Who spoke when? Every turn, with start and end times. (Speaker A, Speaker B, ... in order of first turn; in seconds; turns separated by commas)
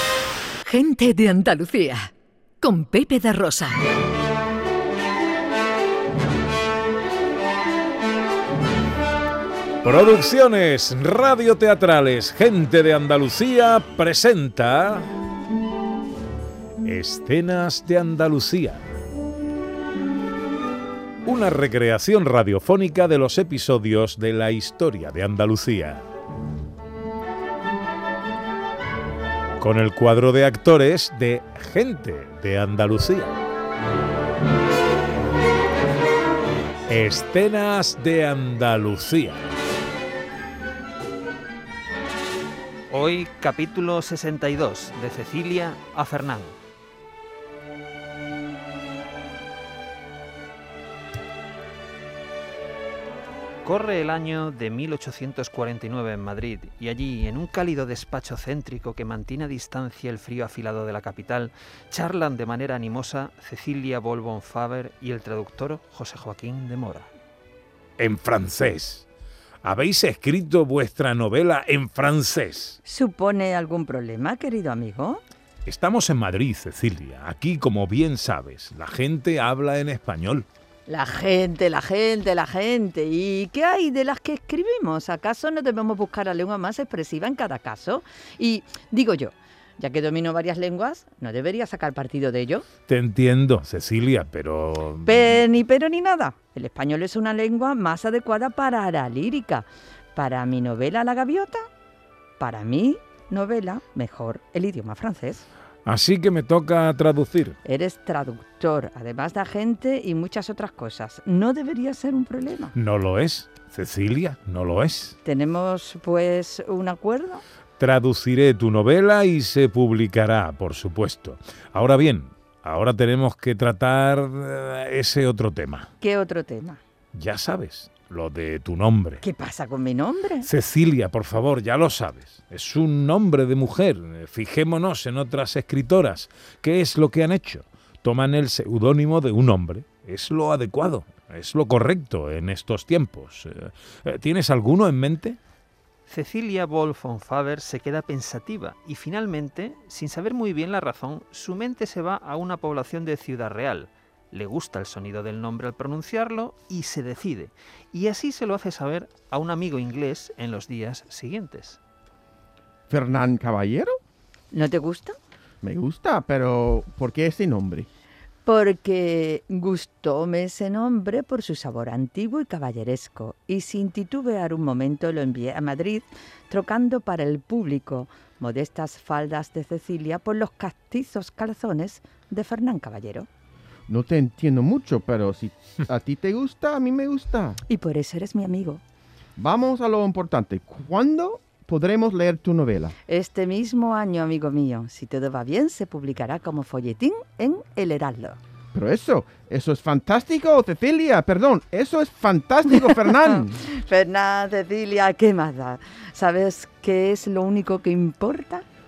Speaker A: 0.7-3.8, Speaker B: 9.8-15.1, Speaker B: 16.8-18.8, Speaker B: 21.2-26.0, Speaker B: 29.6-33.4, Speaker B: 36.9-39.4, Speaker C: 42.9-46.6, Speaker C: 53.6-67.1, Speaker B: 68.0-69.1, Speaker B: 69.6-72.8, Speaker D: 72.8-75.2, Speaker B: 75.7-80.5, Speaker D: 80.9-92.7, Speaker B: 92.9-95.4, Speaker D: 95.0-101.7, Speaker D: 102.4-105.5, Speaker B: 105.8-107.6, Speaker D: 107.6-112.8, Speaker B: 112.8-115.2, Speaker D: 115.2-117.4, Speaker B: 117.8-125.9, Speaker D: 126.0-126.8, Speaker B: 127.1-129.2, Speaker D: 129.2-130.5, Speaker B: 130.4-145.4, Speaker C: 146.1-161.8, Speaker E: 162.9-164.0, Speaker D: 164.5-165.2, Speaker E: 165.6-167.9, Speaker D: 168.4-183.3, Speaker E: 183.9-187.6, Speaker D: 187.7-188.8, Speaker E: 189.4-192.9, Speaker D: 193.1-198.4, Speaker E: 198.7-203.6, Speaker D: 203.2-208.7